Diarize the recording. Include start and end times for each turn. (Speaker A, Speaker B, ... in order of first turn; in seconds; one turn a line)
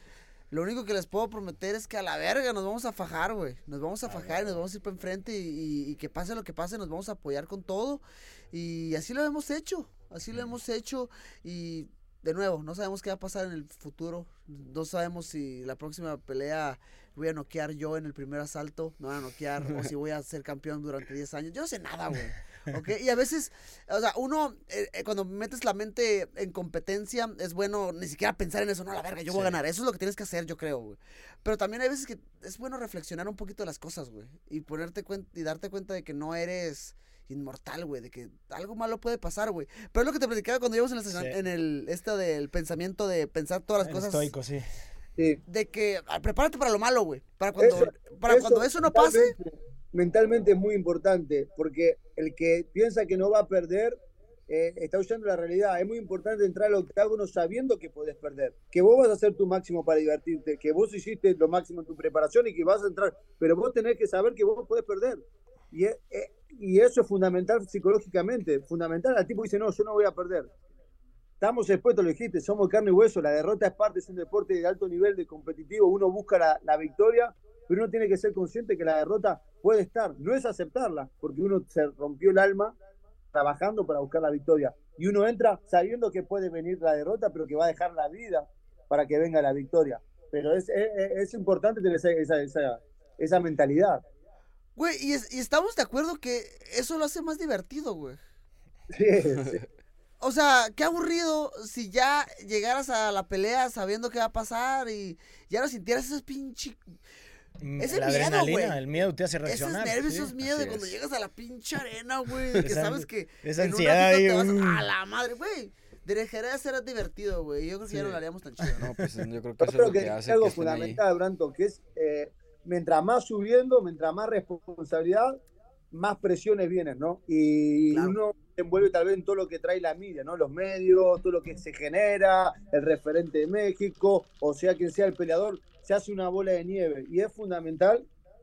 Speaker A: 0.5-44.3
Speaker B: 29.3-29.6
Speaker B: 41.1-41.4
Speaker B: 43.8-44.7
Speaker A: 45.5-49.3
Speaker C: 47.6-70.5
Speaker C: 71.4-82.8
Speaker C: 83.3-94.0
Speaker A: 94.8-98.2
Speaker C: 98.9-99.6
Speaker A: 100.2-106.8
Speaker B: 107.6-110.3
Speaker A: 107.8-108.8
Speaker A: 109.4-118.8
Speaker D: 110.4-110.9
Speaker B: 112.6-114.9
Speaker B: 117.9-119.0
Speaker D: 118.8-121.0
Speaker C: 119.6-125.4
Speaker C: 125.9-138.1
Speaker A: 127.9-128.2